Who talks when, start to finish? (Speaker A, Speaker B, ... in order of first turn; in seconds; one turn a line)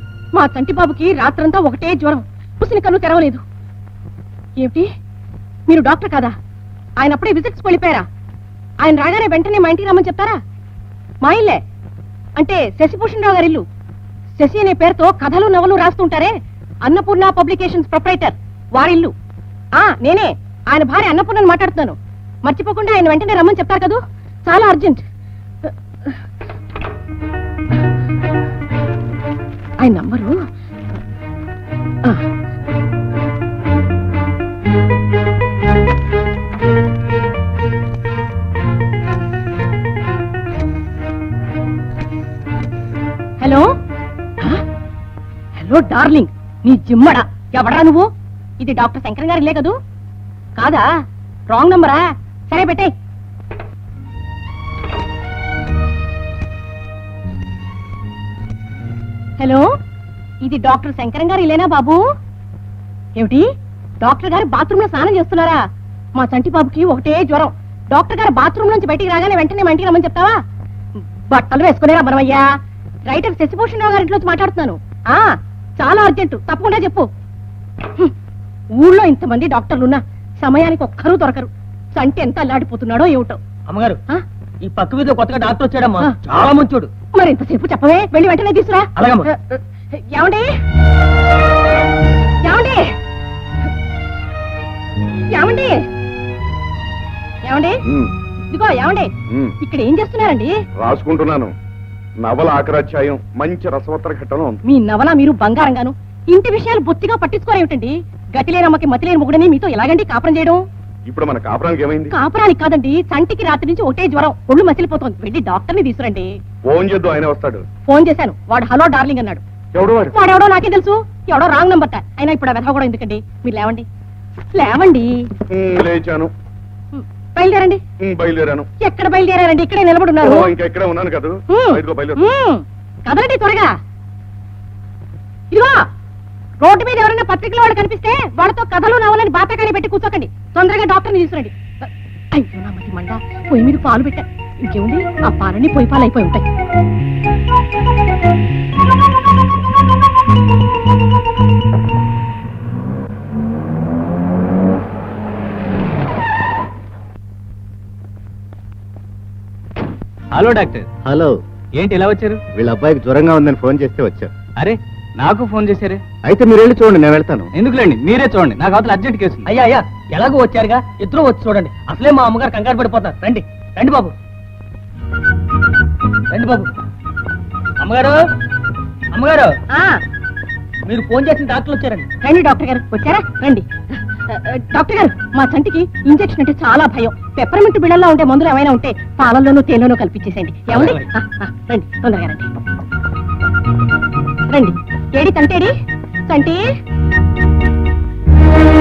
Speaker A: 0.3-3.4
Speaker A: 4.6-4.9
Speaker A: 5.7-6.3
Speaker A: 7.0-8.0
Speaker A: 8.8-10.4
Speaker A: 11.2-11.6
Speaker A: 12.4-13.6
Speaker A: 14.4-16.3
Speaker A: 16.8-19.1
Speaker A: 19.8-25.0
Speaker A: 25.6-26.1
Speaker A: 29.8-30.3
Speaker A: 43.4-43.7
Speaker A: 45.6-48.1
Speaker A: 48.6-49.7
Speaker A: 50.6-50.9
Speaker A: 51.5-52.9
Speaker A: 59.4-59.7
Speaker A: 60.4-62.0
Speaker A: 63.2-63.4
Speaker A: 64.0-65.6
Speaker A: 66.2-70.3
Speaker A: 71.3-72.5
Speaker A: 73.1-75.3
Speaker A: 75.8-77.1
Speaker A: 78.8-83.4
Speaker B: 83.7-84.0
Speaker B: 84.6-86.9
Speaker A: 87.1-90.5
Speaker B: 89.0-89.3
Speaker A: 92.4-92.9
Speaker A: 95.3-95.8
Speaker A: 97.4-97.8
Speaker C: 97.9-98.1
Speaker A: 98.5-99.1
Speaker A: 99.6-100.5
Speaker C: 100.8-101.5
Speaker C: 102.2-104.6
Speaker A: 104.6-110.6
Speaker C: 111.1-112.1
Speaker A: 112.1-116.3
Speaker C: 116.7-117.6
Speaker A: 117.9-119.4
Speaker C: 119.7-120.1
Speaker A: 120.1-123.9
Speaker A: 124.5-125.3
Speaker C: 125.5-126.3
Speaker A: 126.9-127.8
Speaker C: 128.0-128.7
Speaker A: 128.8-130.5
Speaker C: 130.2-132.2
Speaker A: 131.5-133.7
Speaker A: 135.5-135.8
Speaker A: 136.6-146.4
Speaker D: 160.3-160.9
Speaker E: 161.1-161.4
Speaker D: 161.8-162.4
Speaker E: 162.6-164.3
Speaker D: 164.6-166.0
Speaker E: 166.2-167.5
Speaker D: 167.5-169.4
Speaker B: 169.4-174.1
Speaker B: 176.3-176.7
Speaker B: 177.8-178.2
Speaker B: 179.1-179.5
Speaker A: 179.7-180.0
Speaker B: 180.8-182.1
Speaker A: 182.2-183.7
Speaker A: 184.3-192.5
Speaker B: 190.7-191.0
Speaker A: 194.5-195.7
Speaker A: 196.3-196.6